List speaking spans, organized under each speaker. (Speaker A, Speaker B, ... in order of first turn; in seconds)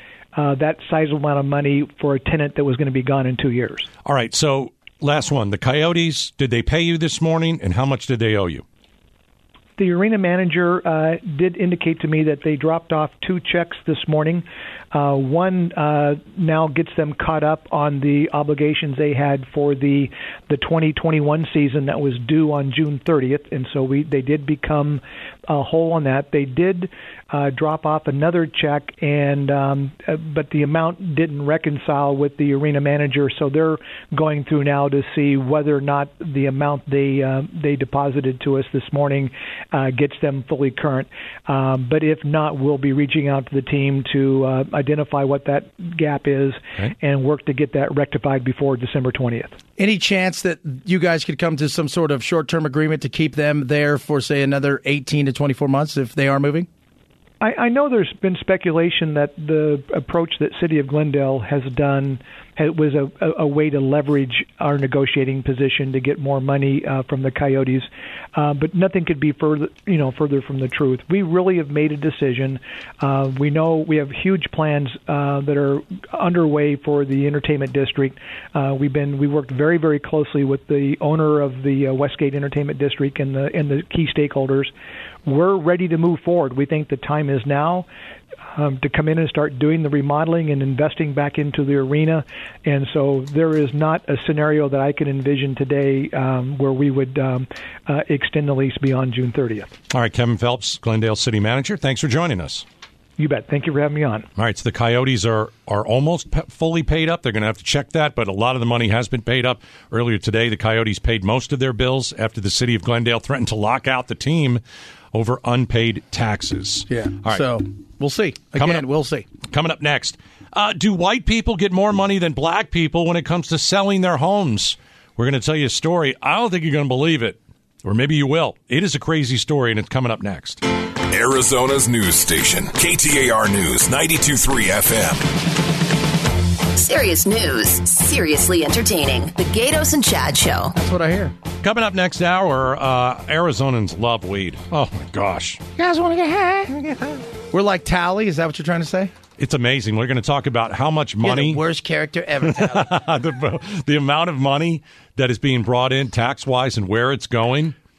Speaker A: 0.3-3.9, 9.8-49.6, 57.4-84.7, 85.2-87.9, 88.5-99.8, 103.2-104.3
Speaker B: 4.0-8.6, 99.9-102.7, 104.4-114.6, 115.1-117.6, 118.6-118.9, 119.4-130.6, 141.6-145.6, 149.4-151.6, 152.4-157.8
Speaker C: 49.8-56.7, 116.9-119.3, 140.8-141.3, 145.8-149.1, 151.2-153.0
Speaker D: 131.1-135.2
Speaker E: 136.8-140.8